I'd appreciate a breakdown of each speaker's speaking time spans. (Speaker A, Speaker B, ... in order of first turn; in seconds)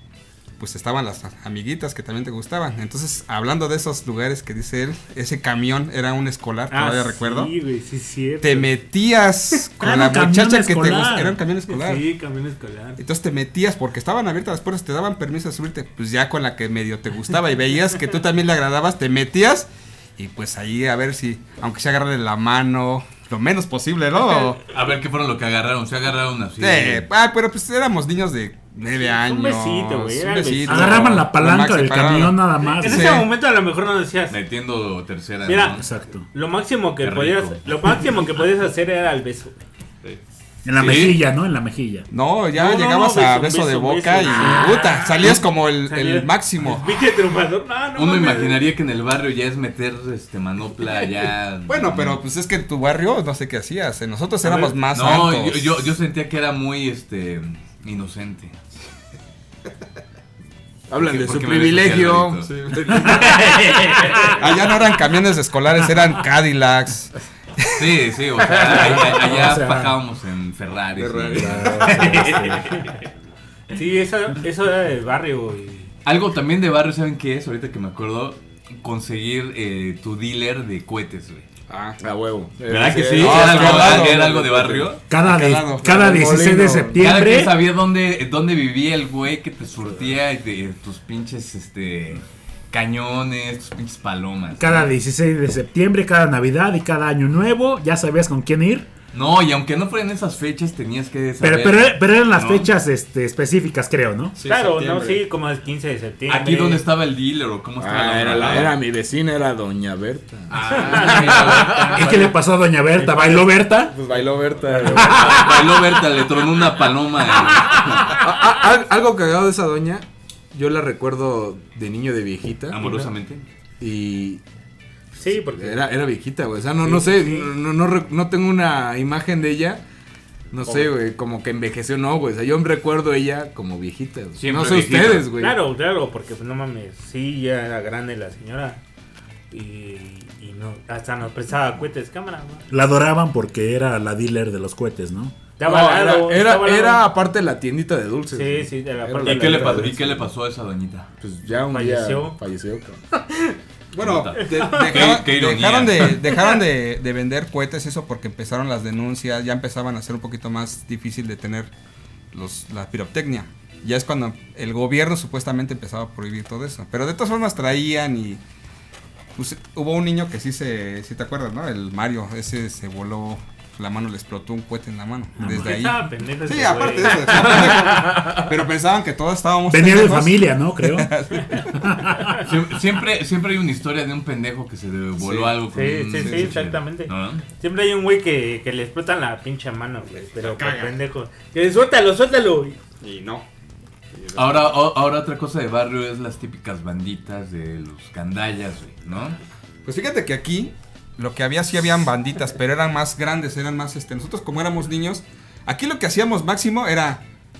Speaker A: 0.6-7.5, 8.4-12.1, 13.0-24.6, 26.6-33.3, 42.1-46.9, 51.7-55.9, 62.7-63.4, 64.3-67.9, 68.6-69.0, 71.0-72.5, 81.7-82.0, 83.2-84.4, 85.2-86.3, 104.3-105.2, 153.9-161.7, 162.3-168.4, 169.4-182.0, 185.2-185.5, 186.2-186.6, 190.2-191.0, 193.0-193.4, 194.2-194.7, 199.8-207.2
Speaker B: 6.7-8.8, 11.7-13.0, 28.9-31.1, 32.7-34.4, 35.5-39.6, 42.5-48.7, 54.4-54.8, 73.7-75.9, 104.4-106.8, 110.8-111.9, 122.8-123.1, 125.1-125.8, 126.8-127.5, 135.4-138.8, 139.5-142.7, 145.6-147.1, 148.3-149.9, 151.7-152.4, 153.3-153.5, 154.4-155.2, 175.4-178.3, 185.7-192.8
Speaker C: 9.8-11.4, 30.6-33.2, 35.8-36.3, 40.6-42.1, 68.7-70.0, 71.3-72.9, 85.1-87.7, 94.6-98.9, 101.4-104.4, 111.7-114.0, 114.8-115.6, 142.7-145.4, 179.7-181.1, 181.8-182.4
Speaker D: 24.7-27.1, 34.3-35.9, 37.0-37.7, 40.8-41.2, 48.0-52.2, 54.9-58.6, 61.0-64.3, 67.7-72.9, 76.0-81.5, 82.7-85.0, 87.0-94.9, 99.1-102.7, 106.3-108.8, 110.5-112.4, 114.9-118.1, 122.7-123.5, 134.4-135.3, 149.2-151.1, 154.0-156.3, 182.4-187.4, 194.3-199.4
Speaker E: 60.9-63.6, 82.0-84.9, 85.8-87.1, 107.8-111.9, 113.7-115.7, 118.0-122.8, 123.8-124.4, 125.5-129.8, 130.5-135.6, 145.6-150.3, 151.2-153.0